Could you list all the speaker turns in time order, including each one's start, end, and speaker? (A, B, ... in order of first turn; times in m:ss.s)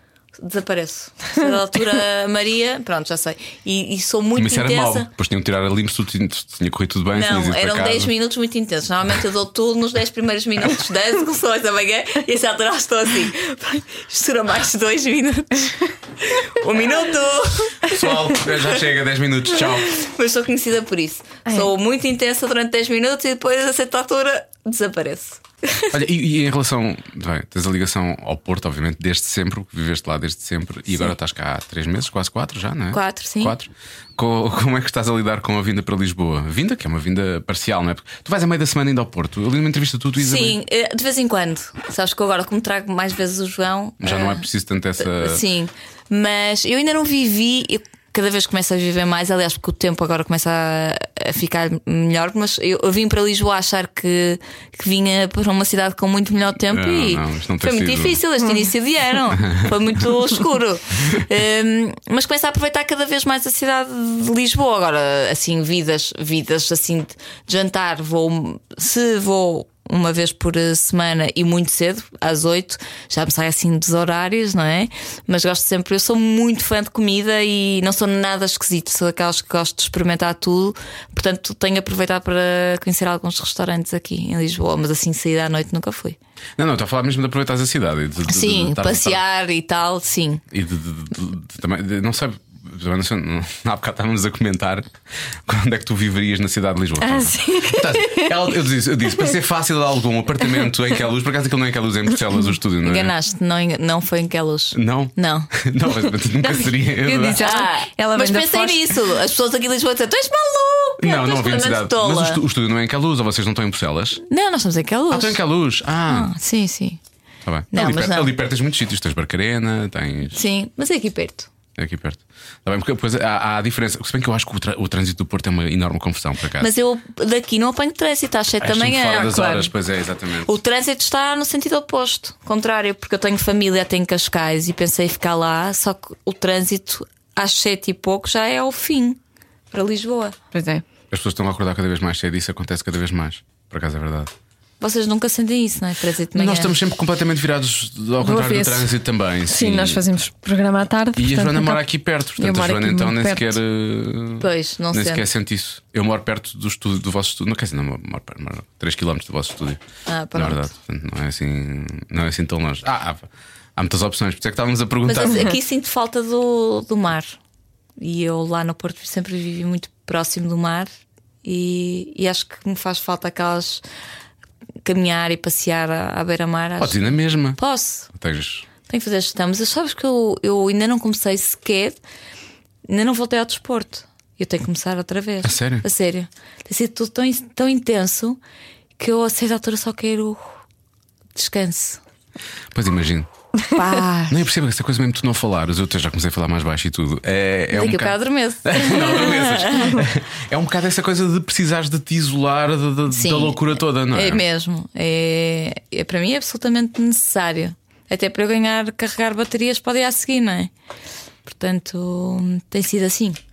0:00.4-0:05.1 A
0:04.4-0:08.1 B
0:07.1-0:18.8 A
0:17.8-0:19.9 B
0:19.5-0:25.9 A
0:25.9-0:40.6 B
0:32.9-0:33.6 A
0:40.2-0:44.4 A
0:44.0-0:45.4 B
0:45.0-1:26.2 A
0:56.7-0:58.2 B
0:59.4-0:59.7 B
1:26.6-1:29.2 B
1:28.3-1:30.4 A
1:30.5-1:34.9 B
1:35.5-1:43.1 B
1:37.0-1:38.4 C
1:42.8-1:45.5 A
1:44.7-1:47.5 B
1:46.4-1:49.0 C
1:47.4-1:52.4 A
1:51.0-1:54.2 B
1:54.3-1:55.4 A
1:55.1-1:56.3 B
1:56.1-1:57.0 A
1:57.4-2:00.4 B
1:57.7-1:58.3 A
2:00.3-2:01.5 A
2:01.8-2:06.7 B
2:06.6-2:09.7 A
2:08.6-2:10.5 B
2:10.4-2:19.2 A
2:19.7-2:20.4 A
2:20.5-2:20.8 C
2:21.1-2:24.3 B
2:24.8-2:26.7 A
2:26.3-2:30.0 B
2:28.2-2:28.9 C
2:29.5-2:31.8 C
2:31.2-2:39.8 B
2:32.4-2:33.6 C
2:34.4-2:35.2 A
2:40.1-2:40.7 A
2:40.4-2:45.5 B
2:45.1-2:47.4 A
2:48.0-2:50.9 A
2:51.4-2:53.8 A
2:54.8-2:58.1 A
2:56.8-2:57.6 B
2:58.1-2:58.7 B
2:58.9-3:02.0 A
3:02.9-3:08.4 A
3:05.4-3:05.8 B
3:09.0-3:10.6 A
3:11.4-3:12.0 A
3:12.7-3:13.3 B
3:13.7-3:14.4 A
3:14.3-3:24.4 B
3:17.7-3:20.0 A
3:23.1-3:30.7 A
3:31.4-3:33.4 A